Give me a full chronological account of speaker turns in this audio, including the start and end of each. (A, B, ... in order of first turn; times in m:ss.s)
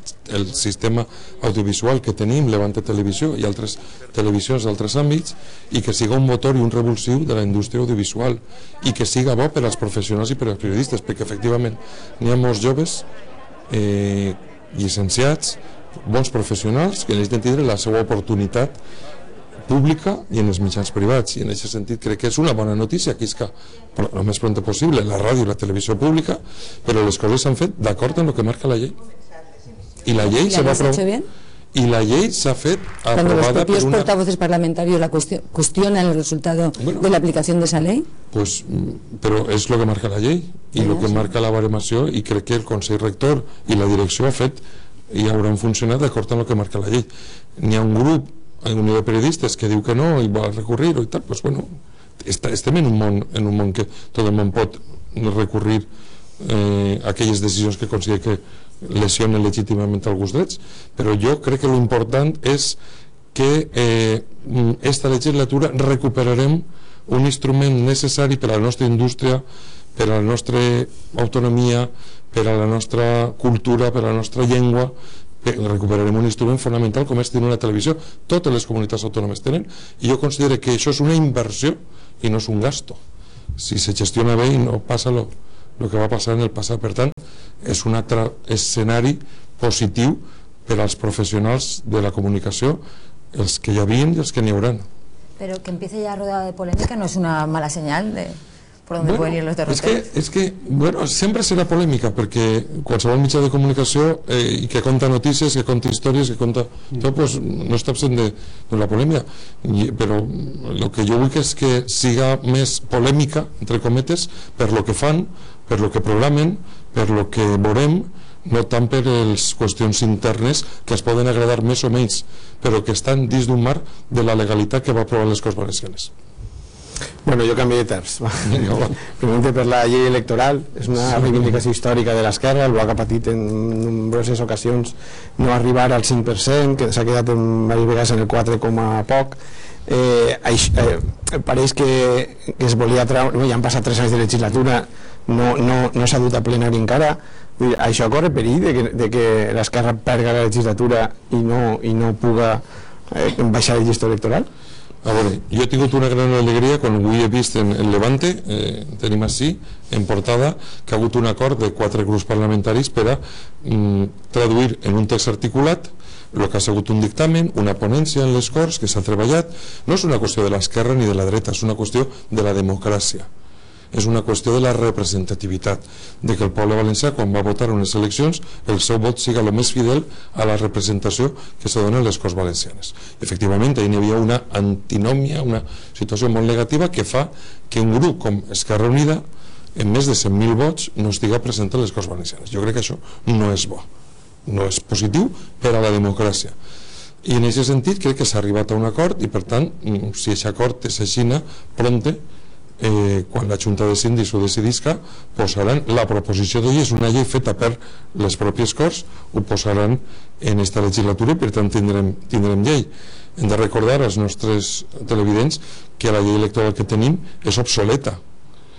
0:00.2-0:13.1 A
0:13.7-0:18.8 A
0:19.6-0:29.0 A
0:30.0-0:31.1 A
0:30.2-0:31.3 B
0:31.7-0:34.1 A
0:33.1-0:38.1 B
0:36.8-0:37.1 A
0:38.3-0:51.7 A
0:40.8-0:41.2 B
0:52.2-1:02.8 A
1:03.3-1:09.4 A
1:10.0-1:23.0 A
1:23.6-1:32.8 A
1:33.3-1:34.9 A
1:35.4-1:40.1 C
1:39.0-2:06.1 A
2:07.2-2:34.5 D
2:08.5-2:09.0 A
2:35.0-2:53.3 A
2:53.9-3:09.2 A
3:09.8-3:13.9 A
3:14.5-3:16.6 A
3:17.2-3:22.2 A
3:22.8-3:38.2 A